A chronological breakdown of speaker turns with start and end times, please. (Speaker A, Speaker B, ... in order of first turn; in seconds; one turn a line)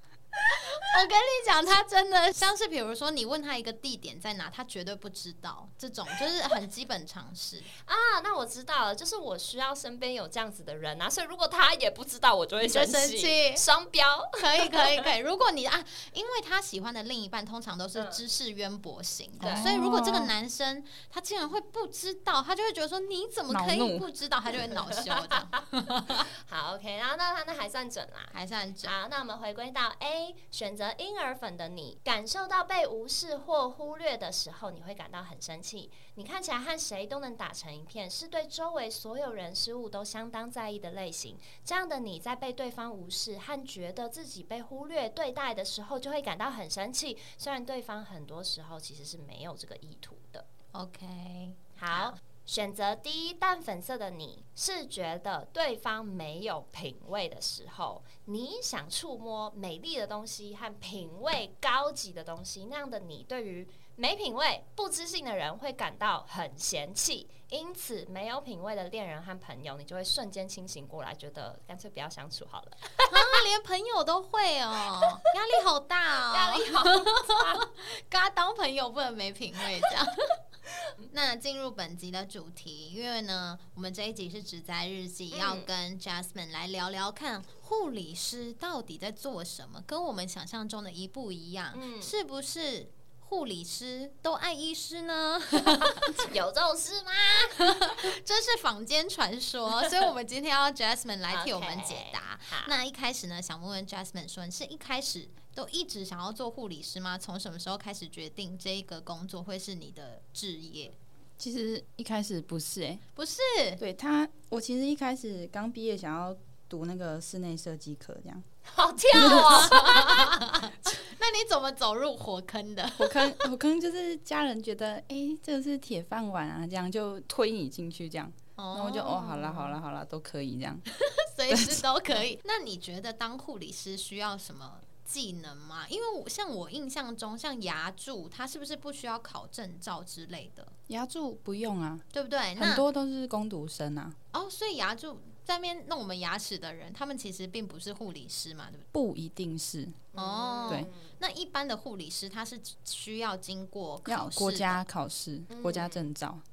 Speaker A: 0.5-7.7
Speaker B: 7.8-15.1
Speaker A: 12.6-13.7
Speaker A: 14.4-26.3
Speaker B: 17.9-18.2
Speaker C: 19.4-20.3
Speaker B: 19.4-19.7
Speaker C: 23.5-24.1
Speaker B: 24.6-25.6
Speaker B: 26.3-50.5
Speaker A: 28.3-28.9
Speaker A: 50.7-52.1
Speaker B: 51.8-73.4
Speaker A: 73.1-80.4
Speaker B: 76.3-77.6
Speaker A: 81.1-96.3
Speaker B: 85.3-85.7
Speaker B: 91.7-92.1
Speaker B: 95.8-98.0
Speaker A: 97.3-111.0
Speaker B: 101.3-102.7
Speaker C: 111.4-113.0
Speaker A: 113.2-113.8
Speaker C: 113.8-118.5
Speaker B: 118.7-120.4
Speaker A: 119.2-123.5
Speaker C: 123.0-130.8
Speaker A: 128.6-129.8
Speaker A: 130.9-140.7
Speaker C: 131.5-131.8
Speaker C: 140.9-142.1
Speaker A: 142.1-142.8
Speaker C: 142.6-144.2
Speaker A: 144.3-148.9
Speaker C: 148.9-150.0
Speaker B: 150.1-151.1
Speaker A: 150.1-154.8
Speaker C: 154.1-156.4
Speaker B: 155.5-156.1